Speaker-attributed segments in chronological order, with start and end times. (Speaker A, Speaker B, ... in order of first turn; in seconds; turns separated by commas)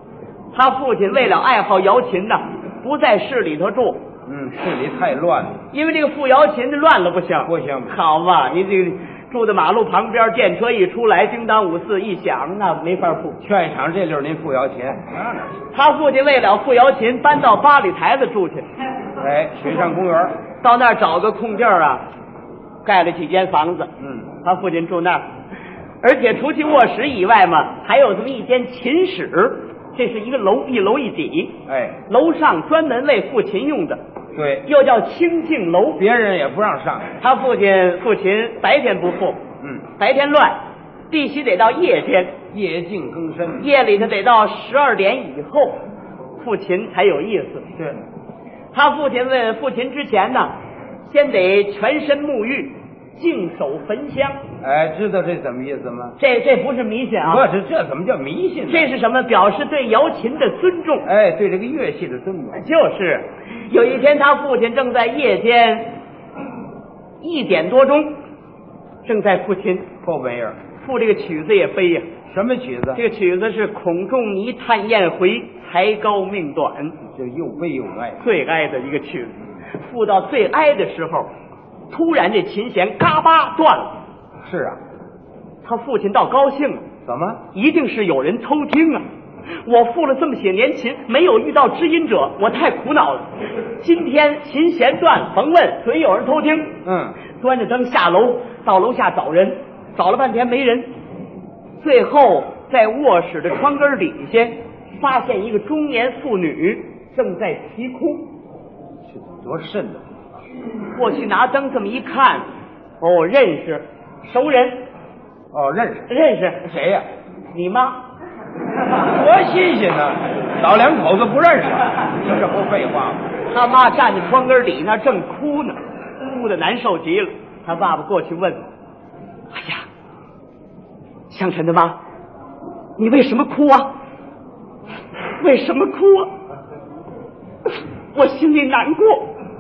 Speaker A: 0.5-4.1, Speaker B: 4.2-5.6, Speaker A: 5.7-13.4, Speaker B: 7.5-7.9, Speaker B: 13.4-15.6, Speaker A: 15.7-18.7, Speaker B: 19.2-20.4, Speaker A: 20.6-22.1, Speaker A: 22.8-25.2, Speaker B: 24.0-24.3, Speaker A: 26.0-34.0, Speaker B: 31.7-32.0, Speaker B: 34.4-34.7, Speaker A: 34.6-36.0, Speaker B: 36.0-37.1, Speaker A: 37.2-39.4, Speaker A: 40.0-40.6, Speaker A: 41.1-42.4, Speaker B: 42.5-43.7, Speaker A: 43.6-45.8, Speaker A: 46.4-47.7, Speaker B: 47.8-48.0, Speaker A: 48.7-50.5, Speaker A: 51.1-54.4, Speaker B: 54.6-56.1, Speaker A: 56.2-57.4, Speaker B: 57.2-58.9, Speaker A: 58.7-61.1, Speaker B: 61.0-62.6, Speaker A: 62.5-66.0, Speaker A: 67.2-68.2, Speaker A: 69.0-69.9, Speaker B: 70.0-70.6, Speaker A: 70.8-72.1, Speaker B: 72.3-73.0, Speaker A: 72.9-77.0, Speaker B: 77.1-78.2, Speaker A: 78.2-81.3, Speaker A: 81.9-84.0, Speaker B: 84.4-84.8, Speaker A: 85.6-86.8, Speaker B: 87.1-87.4, Speaker A: 87.5-89.0, Speaker A: 89.7-96.8, Speaker B: 96.8-97.2, Speaker A: 97.3-100.9, Speaker A: 101.8-108.3, Speaker B: 109.1-110.0, Speaker A: 110.9-112.4, Speaker A: 113.0-114.8, Speaker B: 115.5-116.1, Speaker A: 116.1-116.7, Speaker B: 116.7-117.0, Speaker A: 117.5-118.0, Speaker B: 119.0-123.3, Speaker A: 123.5-128.6, Speaker A: 129.5-129.8, Speaker A: 131.3-132.0, Speaker A: 133.0-133.9, Speaker A: 135.4-136.3, Speaker A: 138.1-139.3